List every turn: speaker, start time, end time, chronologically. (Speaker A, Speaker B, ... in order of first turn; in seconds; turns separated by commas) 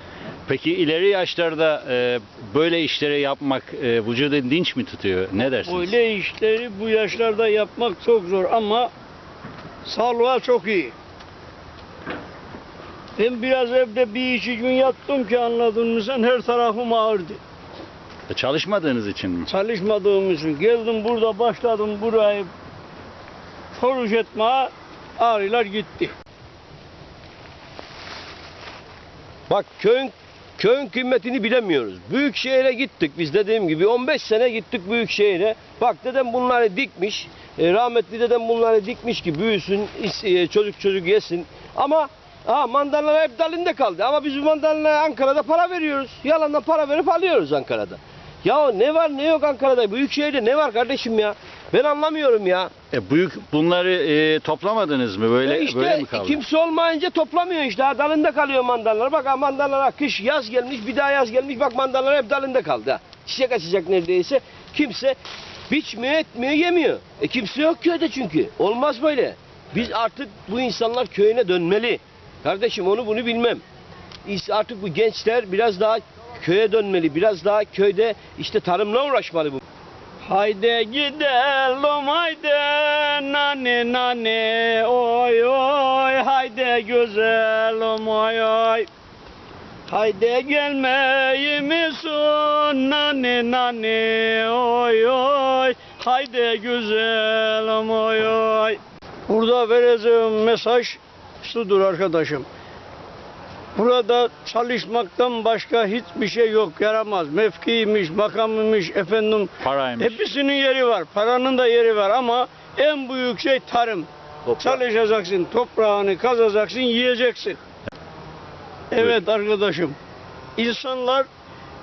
Speaker A: 0.5-6.0, Speaker B: 5.6-8.9, Speaker B: 9.8-10.9, Speaker B: 13.2-17.4, Speaker A: 18.3-19.5, Speaker B: 19.5-22.5, Speaker B: 23.7-26.1, Speaker C: 29.5-52.7, Speaker A: 52.9-56.4, Speaker C: 55.4-65.2, Speaker C: 65.7-73.6, Speaker C: 74.2-79.6, Speaker B: 80.2-88.9, Speaker B: 89.9-102.5, Speaker B: 103.7-114.1, Speaker A: 109.6-110.2, Speaker C: 114.5-114.8, Speaker B: 114.6-117.6, Speaker B: 118.9-120.0, Speaker B: 120.5-121.3